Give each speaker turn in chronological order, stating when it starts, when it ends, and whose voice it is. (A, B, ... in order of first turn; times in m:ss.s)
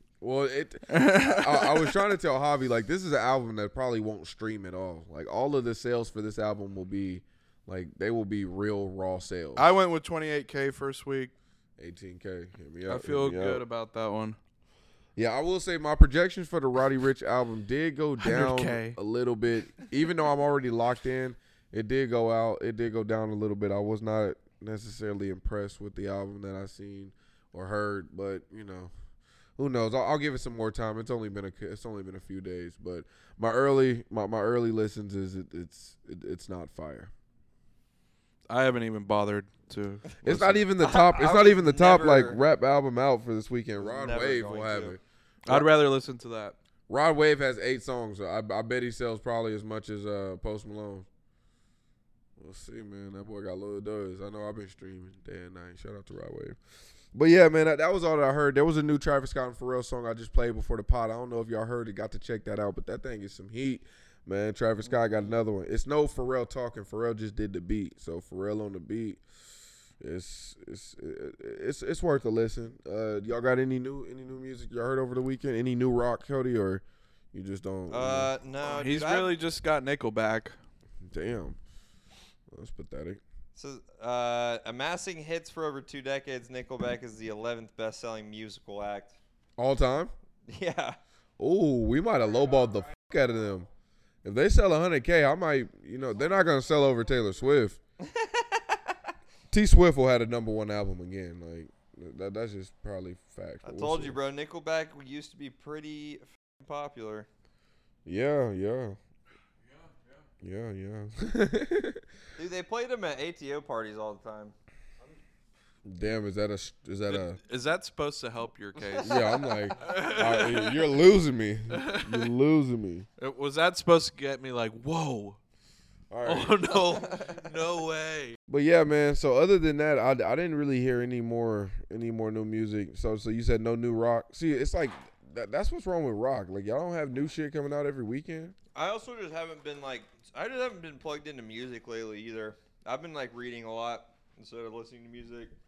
0:00.2-0:09.7 A
0:00.9-0:02.0 B
0:09.6-0:11.3 B
0:11.8-0:13.6 A
0:12.9-0:14.4 B
0:15.2-0:28.9 A
0:18.2-0:19.0 B
0:29.6-0:37.1 A
0:38.5-0:40.7 B
0:40.2-0:45.7 A
0:40.8-0:42.4 C
0:43.8-0:45.0 C
0:45.4-0:46.6 B
0:46.9-0:51.1 A
0:52.4-0:56.6 A
0:57.1-1:09.2 A
1:10.0-1:18.3 A
1:17.9-1:19.3 C
1:18.6-1:20.6 B
1:21.0-1:21.6 A
1:22.5-1:23.2 A
1:23.6-1:29.2 C
1:29.6-1:30.1 A
1:30.5-1:31.0 C
1:31.4-1:33.7 A
1:34.2-1:37.8 A
1:38.0-1:39.0 C
1:39.5-1:44.2 A
1:43.6-1:47.3 C
1:48.0-1:49.0 A
1:49.7-1:50.1 B
1:50.4-1:52.0 A
1:52.4-1:54.5 C
1:55.8-1:57.4 A
1:57.1-2:00.9 B
1:59.0-2:03.1 A
2:01.7-2:02.3 B
2:03.2-2:05.4 B
2:06.1-2:07.0 A
2:06.2-2:08.4 B
2:08.5-2:18.6 A
2:18.8-2:25.5 C